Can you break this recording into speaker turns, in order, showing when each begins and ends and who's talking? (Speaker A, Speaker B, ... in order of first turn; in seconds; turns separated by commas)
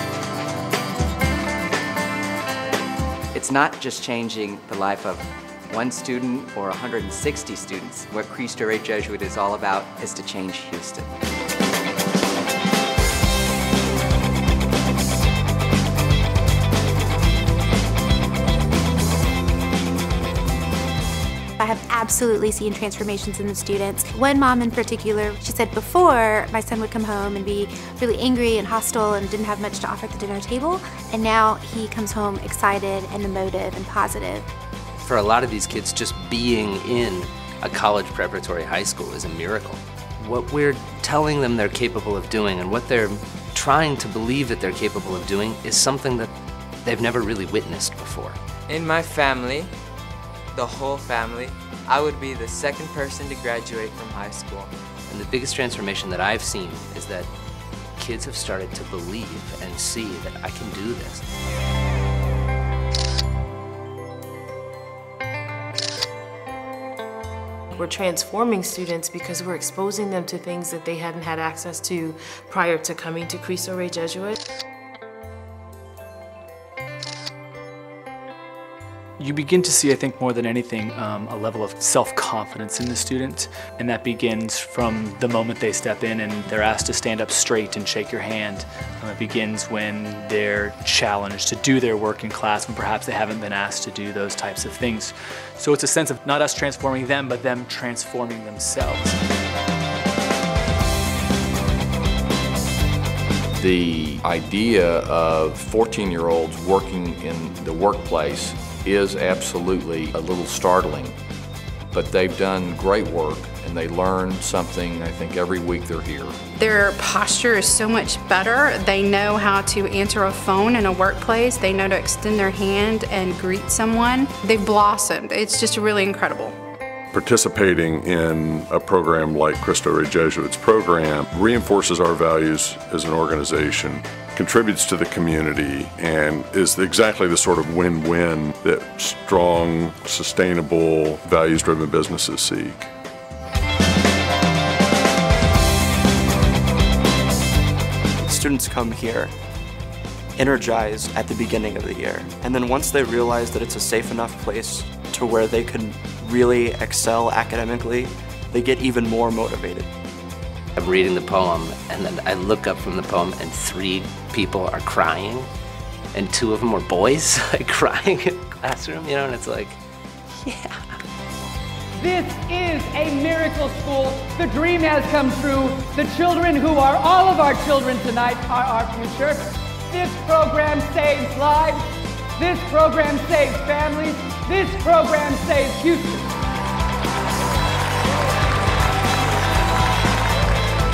Speaker A: 3.3-11.1, Speaker B: 21.6-34.5, Speaker C: 35.0-46.3, Speaker C: 46.8-48.4, Speaker D: 48.7-49.7, Speaker D: 50.5-54.7, Speaker C: 55.1-57.3, Speaker C: 58.0-61.2, Speaker E: 67.7-74.4, Speaker F: 79.2-99.2, Speaker G: 103.6-111.1, Speaker G: 111.9-116.3, Speaker H: 116.6-126.5, Speaker I: 127.1-142.9, Speaker J: 148.2-149.3, Speaker J: 150.3-159.9, Speaker C: 160.8-165.5, Speaker C: 166.1-169.8, Speaker C: 170.4-170.8, Speaker K: 171.9-181.8, Speaker K: 182.4-186.3